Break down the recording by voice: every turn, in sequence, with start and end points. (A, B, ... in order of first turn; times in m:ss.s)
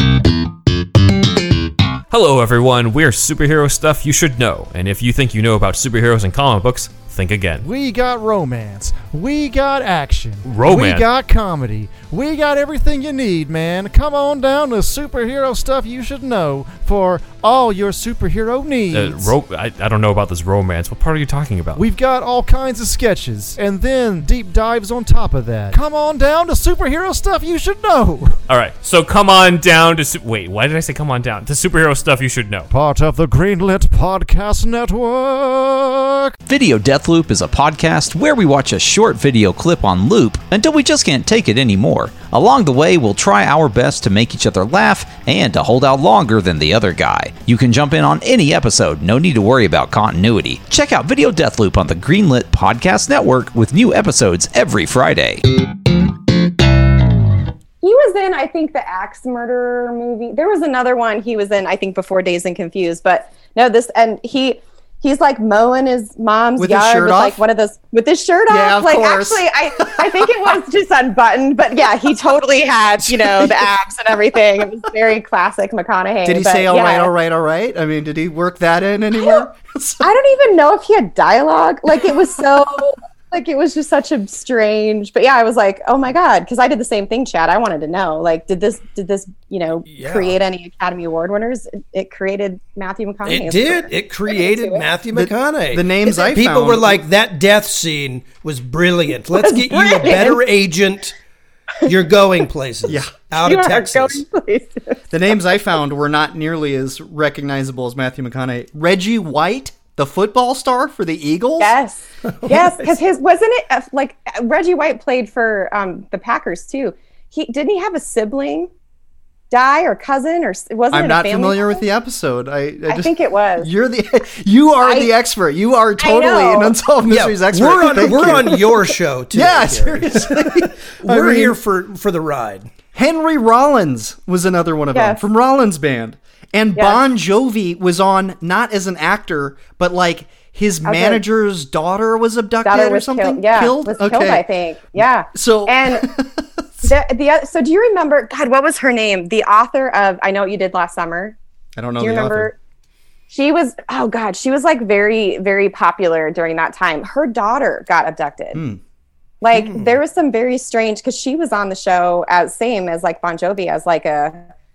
0:02.1-0:07.7 A
0:07.6-0:19.3 B
0:10.4-0:11.1 A
0:18.9-0:21.9 A
0:21.8-0:28.4 B
0:28.5-0:32.7 A
0:32.7-0:36.3 B
0:36.5-0:55.4 C
0:57.8-1:17.1 D
1:06.6-1:07.4 E
1:08.5-1:10.5 E
1:13.0-1:13.7 E
1:16.2-1:20.1 E
1:19.1-1:19.4 D
1:20.0-1:34.8 D
1:29.9-1:30.4 F
1:33.2-1:41.2 F
1:35.1-1:37.0 E
1:39.4-1:40.4 D
1:41.8-1:44.2 F
1:42.8-1:43.3 E
1:43.4-1:45.0 D
1:45.1-1:51.7 E
1:51.6-1:58.7 D
1:59.5-2:01.8 D
2:00.9-2:11.6 E
2:02.9-2:03.7 D
2:04.8-2:05.1 D
2:06.0-2:06.8 D
2:07.1-2:12.7 F
2:13.0-2:26.9 E
2:14.9-2:15.2 D
2:20.8-2:21.2 D
2:22.6-2:26.1 D
2:26.8-2:31.4 D
2:31.8-2:32.5 E
2:32.0-2:32.6 D
2:33.3-2:38.6 D
2:38.5-2:38.8 E
2:39.4-2:44.5 D
2:39.5-2:40.0 E